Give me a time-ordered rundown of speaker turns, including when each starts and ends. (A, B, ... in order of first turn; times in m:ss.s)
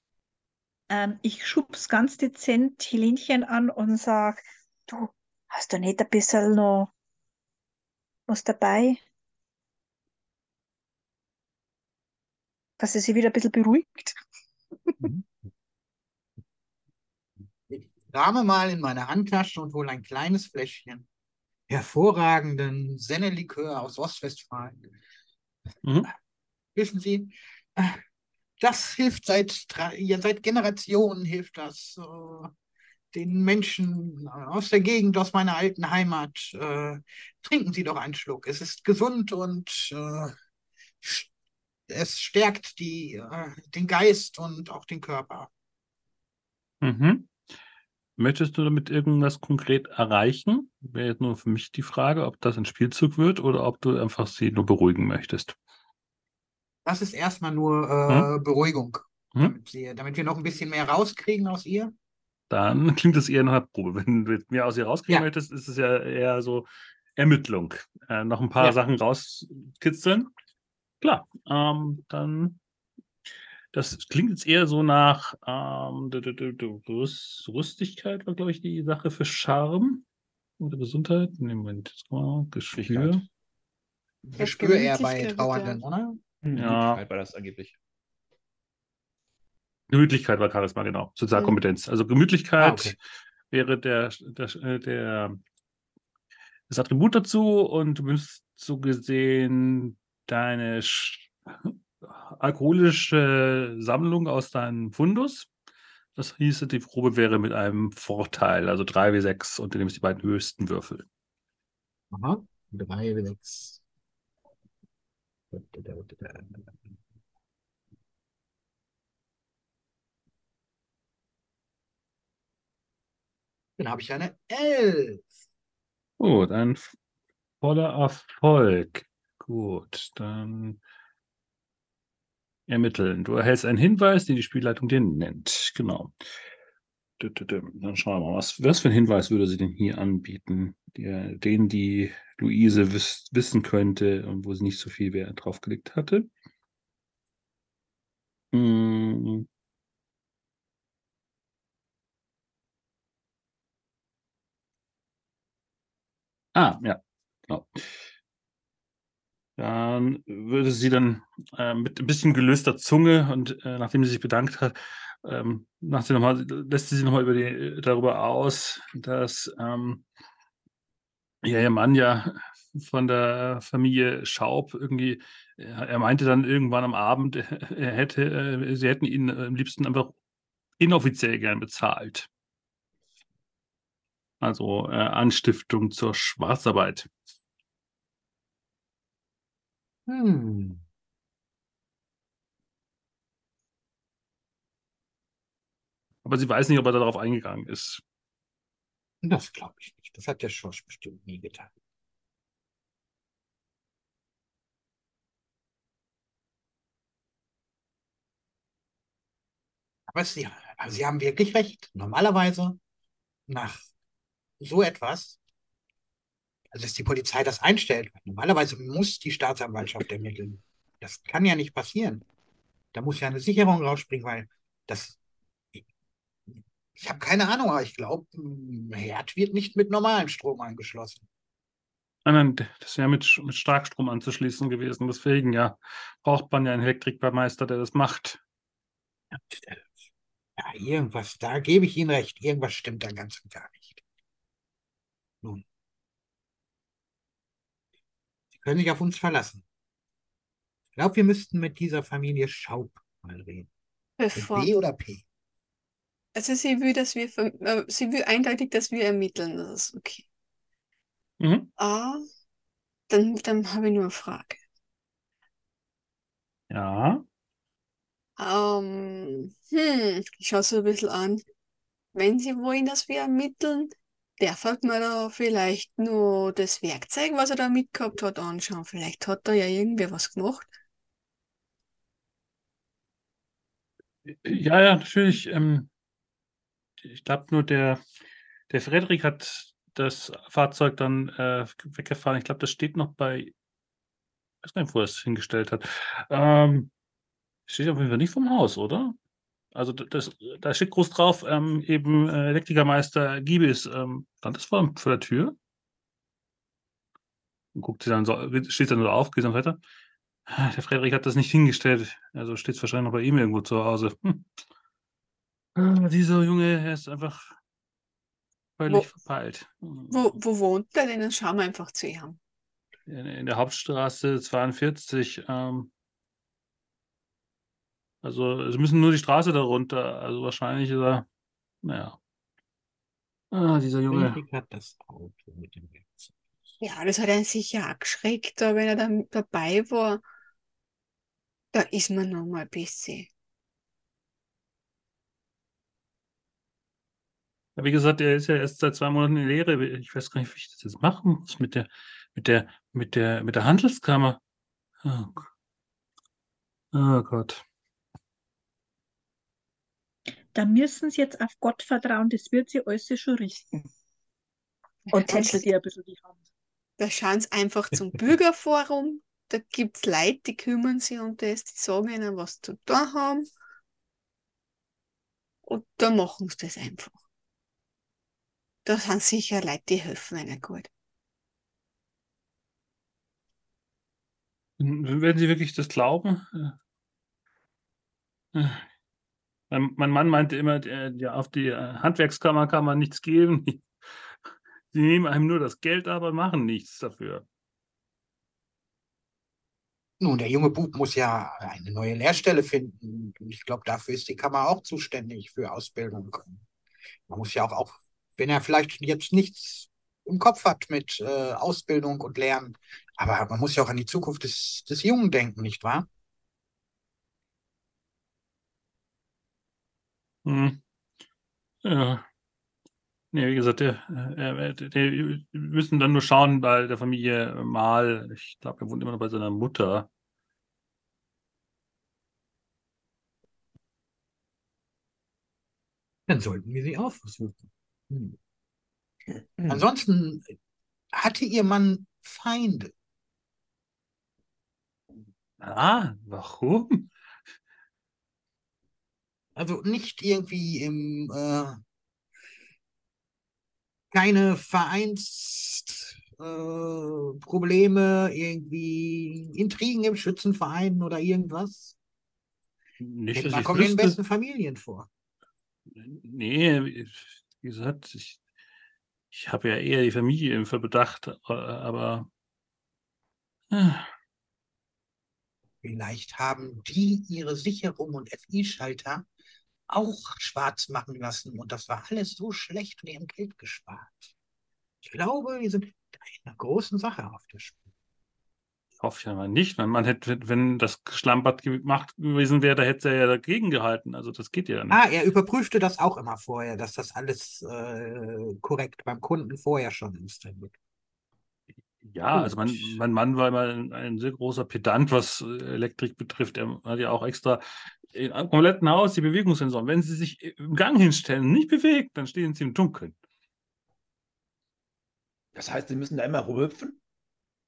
0:00.9-0:06.9 A
0:08.3-0:09.0 A
0:12.8-0:14.2 A
0:15.0-0:15.2 B
0:17.7-0:21.1 B
0:21.7-0:24.8 B
0:25.8-0:26.1 C
0:26.8-0:28.0 B
0:28.6-0:32.5 B
0:33.1-0:40.3 B
0:41.0-0:41.3 B
0:41.9-0:45.5 B
0:46.8-0:47.3 C
0:48.2-0:55.6 C
0:56.9-1:01.9 B
1:02.5-1:10.3 C
1:11.0-1:12.6 C
1:13.7-1:20.0 C
1:20.6-1:23.2 C
1:22.8-1:23.2 D
1:24.2-1:26.2 B
1:24.4-1:25.8 E
1:26.4-1:27.8 D
1:26.6-1:27.0 C
1:29.9-1:33.0 C
1:32.6-1:33.0 B
1:33.5-1:35.4 C
1:36.7-1:45.5 C
1:46.2-1:51.1 C
1:52.1-1:53.8 B
1:55.5-1:56.8 B
2:03.8-2:05.2 B
2:06.2-2:06.9 C
2:07.6-2:10.8 C
2:12.7-2:16.3 C
2:17.2-2:26.3 C
2:28.5-2:29.5 C
2:36.6-2:38.0 C
2:39.6-2:50.0 C
2:51.4-3:00.1 C
3:00.8-3:02.3 C
3:04.4-3:07.1 C
3:10.1-3:10.8 B
3:16.2-3:18.0 C
3:19.2-3:21.7 B
3:30.1-3:32.8 B
3:33.5-3:33.9 B
3:34.6-3:35.4 B
3:36.7-3:42.2 B
3:42.9-3:45.2 B
3:47.0-3:51.3 B
3:52.3-3:58.4 C
3:59.3-4:00.1 B
4:00.6-4:04.0 B
4:08.6-4:09.6 B
4:11.0-4:13.7 B
4:14.2-4:14.7 E
4:14.4-4:15.2 B
4:16.4-4:20.2 E
4:21.4-4:21.7 C
4:21.8-4:22.2 E
4:23.1-4:24.6 E
4:26.7-4:27.2 C
4:28.4-4:31.4 E
4:32.1-4:40.7 E
4:44.3-4:45.9 C
4:47.0-4:48.0 C
4:48.7-4:53.5 C
4:54.6-4:56.9 C
4:57.7-4:59.1 C
4:59.7-5:05.6 C
5:07.7-5:09.8 C
5:10.5-5:14.5 C
5:15.8-5:17.5 C
5:18.8-5:20.3 C
5:20.1-5:22.4 E
5:23.1-5:25.9 C
5:28.2-5:31.3 C
5:31.8-5:32.2 C
5:33.5-5:34.4 C
5:34.1-5:36.3 B
5:36.8-5:40.2 E
5:41.7-5:43.3 E
5:47.8-5:54.4 C
5:55.0-5:55.4 C
5:56.9-5:57.6 C
6:00.5-6:03.9 A
6:05.1-6:05.6 E
6:05.1-6:06.4 A
6:07.0-6:13.4 E
6:15.6-6:17.2 E
6:18.8-6:20.9 E
6:24.8-6:26.8 C
6:28.5-6:28.8 C
6:29.7-6:37.4 C
6:40.2-6:46.6 B
6:47.3-6:56.1 B
7:00.4-7:00.8 C
7:01.8-7:02.2 C
7:03.3-7:10.1 C
7:16.3-7:18.4 B
7:19.7-7:20.6 B
7:21.1-7:22.9 B
7:25.6-7:27.1 C
7:29.6-7:31.8 B
7:34.1-7:42.0 B
7:43.0-7:44.2 C
7:43.3-7:45.1 B
7:46.0-7:48.4 C
7:49.3-7:52.3 C
7:53.7-7:54.1 C
7:55.8-7:59.2 B
7:59.9-8:04.3 B
8:05.0-8:07.8 B
8:09.0-8:15.0 C
8:14.9-8:20.7 B
8:22.0-8:33.1 C
8:22.3-8:23.0 B
8:35.5-8:37.0 D